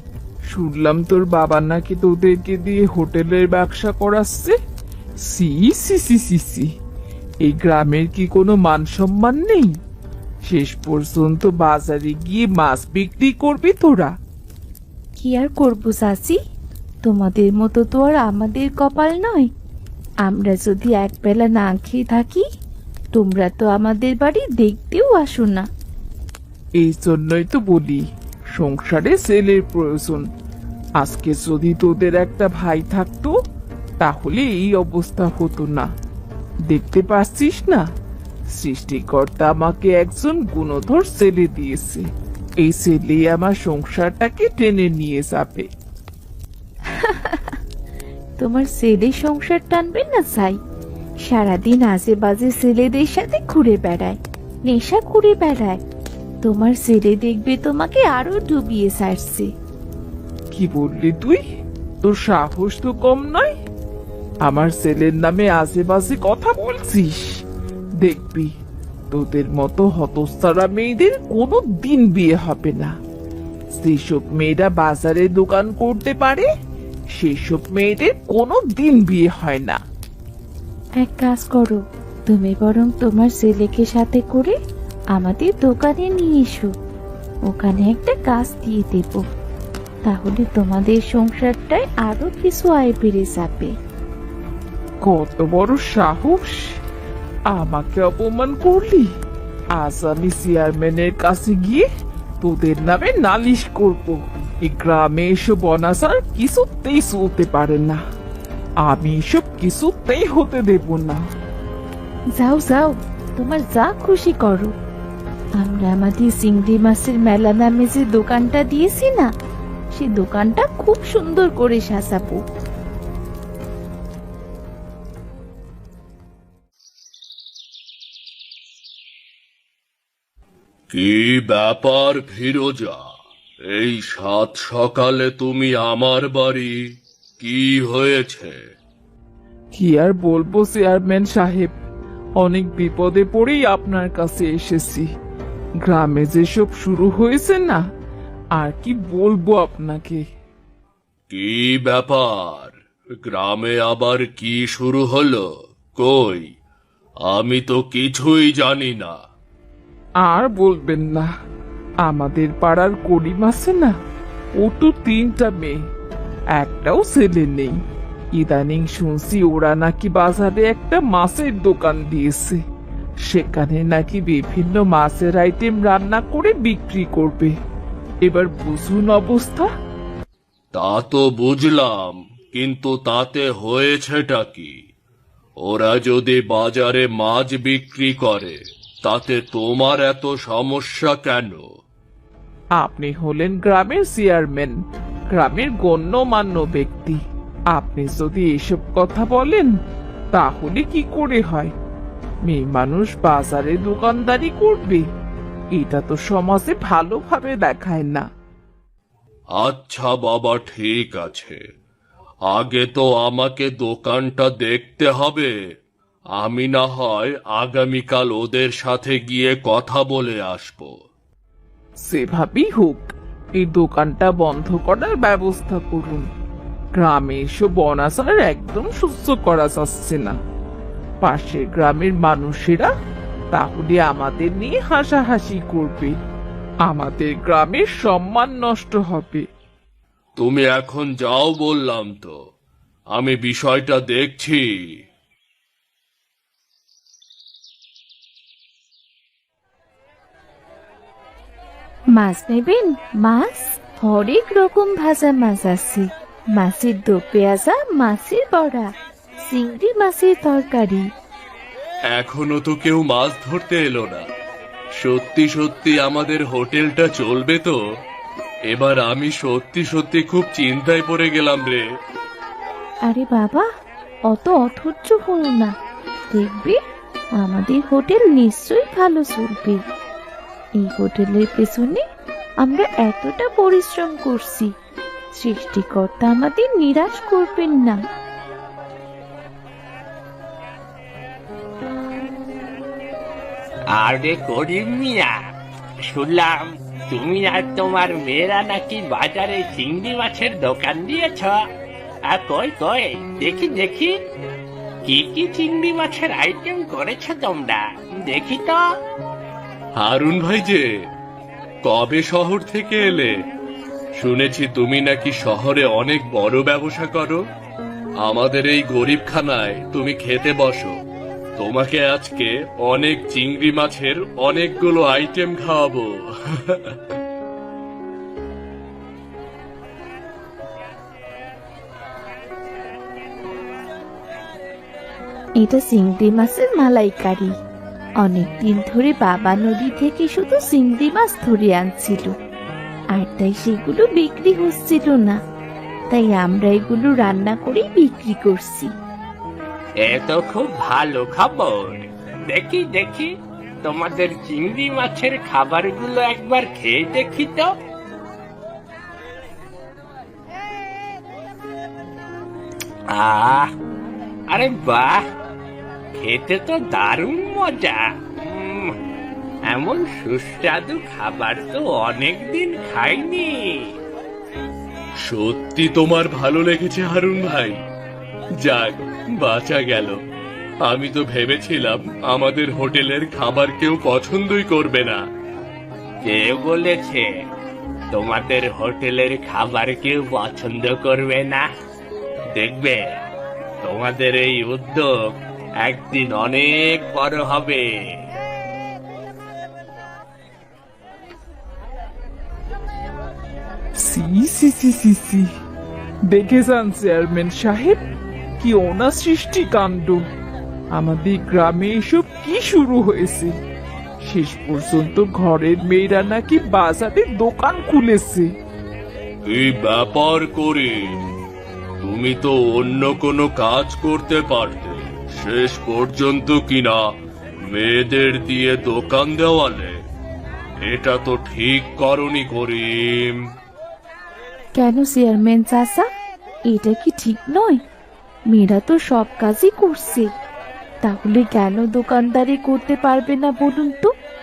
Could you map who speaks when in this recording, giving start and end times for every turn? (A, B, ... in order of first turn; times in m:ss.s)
0:00.5-0:04.6 A
0:05.3-0:06.7 A
0:07.4-0:09.7 A
0:10.4-0:14.1 A
0:15.2-0:16.4 B
0:17.0-0:19.5 B
0:20.2-0:22.4 B
0:23.1-0:25.7 B
0:26.8-0:28.0 A
0:28.6-0:30.2 A
0:31.0-0:33.3 A
0:34.0-0:35.9 A
0:36.7-0:37.8 A
0:38.5-0:42.1 A
0:42.6-0:45.7 A
0:46.9-0:47.6 B
0:48.4-0:50.6 B
0:51.2-0:55.8 B
0:56.4-0:59.5 B
1:00.5-1:01.4 A
1:02.0-1:03.5 A
1:04.4-1:07.4 A
1:08.0-1:08.5 A
1:09.1-1:12.9 A
1:13.8-1:16.5 A
1:17.2-1:19.8 A
1:21.0-1:24.6 B
1:25.1-1:26.7 B
1:27.5-1:29.2 B
1:30.0-1:33.7 B
1:35.0-1:36.8 A
1:37.5-1:39.1 A
1:39.8-1:41.9 A
1:42.4-1:48.0 A
1:48.8-1:51.2 A
1:52.4-1:54.7 B
1:55.6-1:59.3 B
1:59.9-2:02.4 B
2:10.9-2:13.0 C
2:13.7-2:16.8 C
2:17.4-2:18.6 C
2:19.8-2:21.7 A
2:22.4-2:25.1 A
2:25.8-2:27.8 A
2:28.6-2:30.2 A
2:31.3-2:32.7 C
2:33.3-2:35.4 C
2:36.0-2:36.5 C
2:37.3-2:39.2 C
2:40.2-2:41.3 A
2:42.0-2:43.9 A
2:44.6-2:45.8 A
2:46.6-2:47.8 A
2:48.4-2:52.6 A
2:53.3-2:57.5 A
2:58.2-2:59.7 A
3:00.7-3:04.7 C
3:05.6-3:11.6 C
3:12.8-3:14.8 A
3:15.3-3:17.2 A
3:17.7-3:19.7 A
3:20.3-3:21.7 A
3:22.5-3:25.1 A
3:25.8-3:28.3 A
3:29.6-3:31.6 C
3:32.5-3:35.5 C
3:36.4-3:40.9 C
3:42.0-3:46.2 A
3:47.0-3:50.3 A
3:51.2-3:52.9 A
3:53.5-3:56.2 A
3:56.9-3:59.4 A
4:00.4-4:02.3 C
4:03.2-4:04.6 C
4:12.2-4:18.9 B
4:19.4-4:21.1 B
4:22.1-4:24.2 C
4:25.0-4:27.8 C
4:28.7-4:31.8 C
4:33.1-4:33.6 B
4:34.3-4:35.7 B
4:36.3-4:36.8 B
4:37.4-4:39.8 B
4:40.8-4:42.0 B
4:42.6-4:44.7 B
4:45.3-4:48.0 B
4:53.9-4:55.3 D
4:56.1-5:01.6 D
5:02.3-5:04.2 D
5:05.0-5:08.8 D
5:10.0-5:10.8 C
5:11.8-5:13.3 C
5:14.2-5:17.4 C
5:18.2-5:20.9 C
5:21.6-5:26.1 C
5:35.6-5:37.5 B
5:38.2-5:42.3 B
5:43.1-5:45.4 B
5:46.1-5:48.9 B
5:50.1-5:53.3 D
5:53.8-5:57.7 D
6:03.1-6:03.7 D
6:04.5-6:05.2 D
6:06.1-6:08.9 D
6:09.7-6:13.9 D
6:15.2-6:17.8 C
6:18.6-6:20.1 C
6:20.8-6:25.2 C
6:26.2-6:27.2 D
6:28.1-6:31.7 D
6:32.6-6:33.2 D
6:33.8-6:38.2 D
6:44.0-6:45.5 A
6:46.3-6:48.0 A
6:48.6-6:50.2 A
6:50.9-6:53.6 A
6:54.2-6:58.5 A
6:59.5-7:00.9 C
7:02.0-7:07.0 C
7:07.7-7:09.9 C
7:10.9-7:13.3 C
7:14.8-7:16.1 B
7:16.7-7:17.8 B
7:18.5-7:20.3 B
7:21.0-7:24.1 B